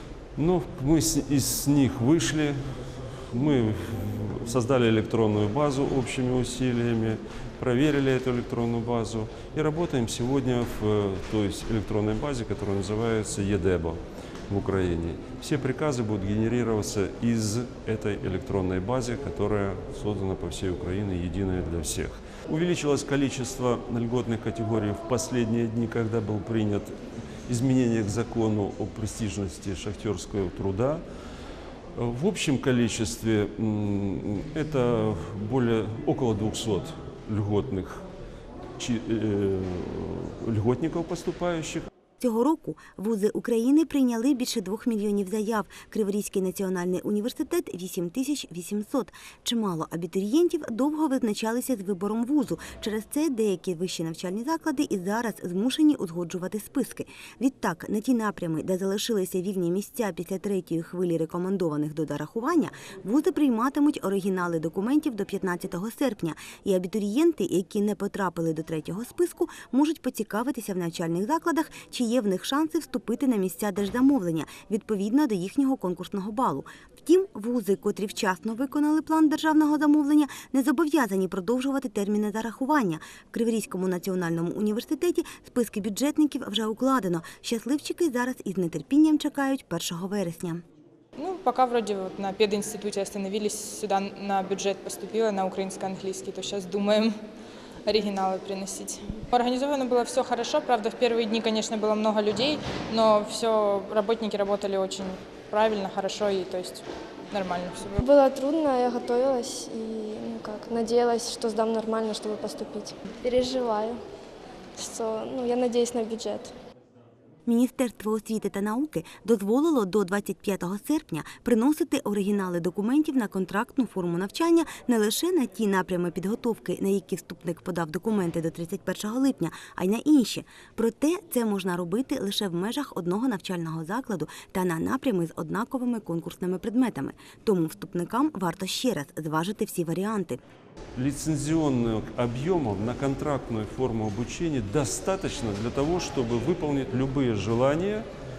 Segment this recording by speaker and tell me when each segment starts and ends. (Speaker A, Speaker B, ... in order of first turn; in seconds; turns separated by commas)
Speaker A: 0.4-26.9, Speaker A: 27.5-31.0, Speaker A: 31.9-38.0, Speaker A: 38.8-41.9, Speaker B: 42.2-90.6, Speaker C: 91.2-97.1, Speaker C: 97.8-108.0, Speaker D: 108.0-114.0, Speaker D: 114.8-116.5, Speaker B: 117.5-140.4, Speaker A: 140.9-148.1